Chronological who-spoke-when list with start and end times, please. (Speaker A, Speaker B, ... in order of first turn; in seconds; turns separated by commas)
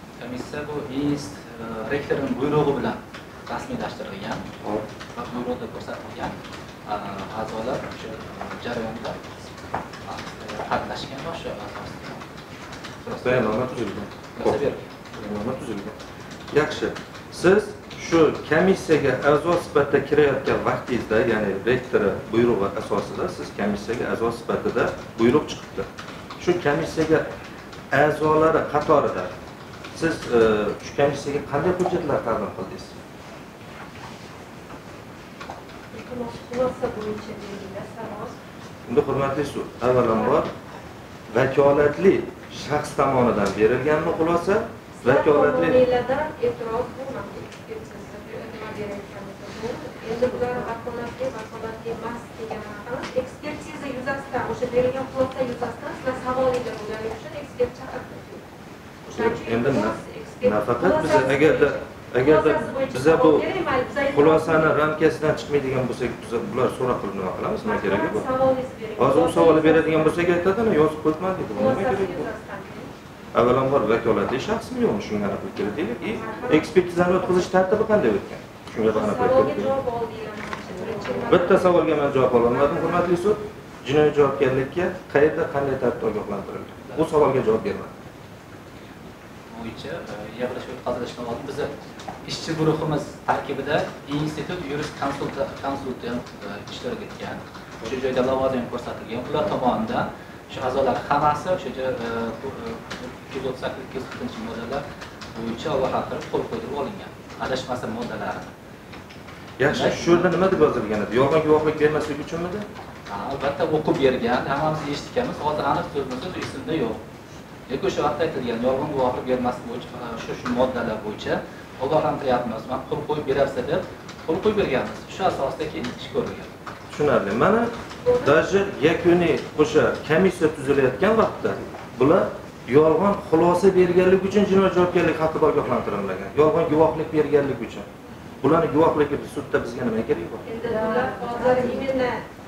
Speaker A: 0.2-4.5, Speaker A: 5.2-9.2, Speaker A: 10.1-12.2, Speaker A: 13.0-14.9, Speaker B: 13.2-14.6, Speaker B: 15.1-16.0, Speaker B: 16.5-25.9, Speaker B: 26.4-27.3, Speaker B: 27.9-29.3, Speaker B: 29.9-32.9, Speaker C: 35.9-38.4, Speaker B: 38.9-40.5, Speaker C: 40.1-40.4, Speaker B: 41.3-45.9, Speaker C: 45.0-58.4, Speaker B: 59.1-63.5, Speaker C: 59.1-64.7, Speaker B: 64.1-68.2, Speaker C: 67.6-70.3, Speaker B: 69.0-72.3, Speaker C: 71.5-72.9, Speaker B: 73.3-79.7, Speaker C: 76.0-77.5, Speaker C: 78.9-81.8, Speaker B: 81.3-87.9, Speaker C: 82.5-83.1, Speaker A: 89.5-91.7, Speaker A: 92.2-104.8, Speaker A: 105.3-108.5, Speaker B: 109.6-112.7, Speaker A: 109.7-110.3, Speaker A: 113.1-117.0, Speaker A: 117.7-126.5, Speaker B: 126.9-137.9, Speaker C: 128.0-128.5, Speaker B: 138.4-140.4, Speaker C: 140.4-142.2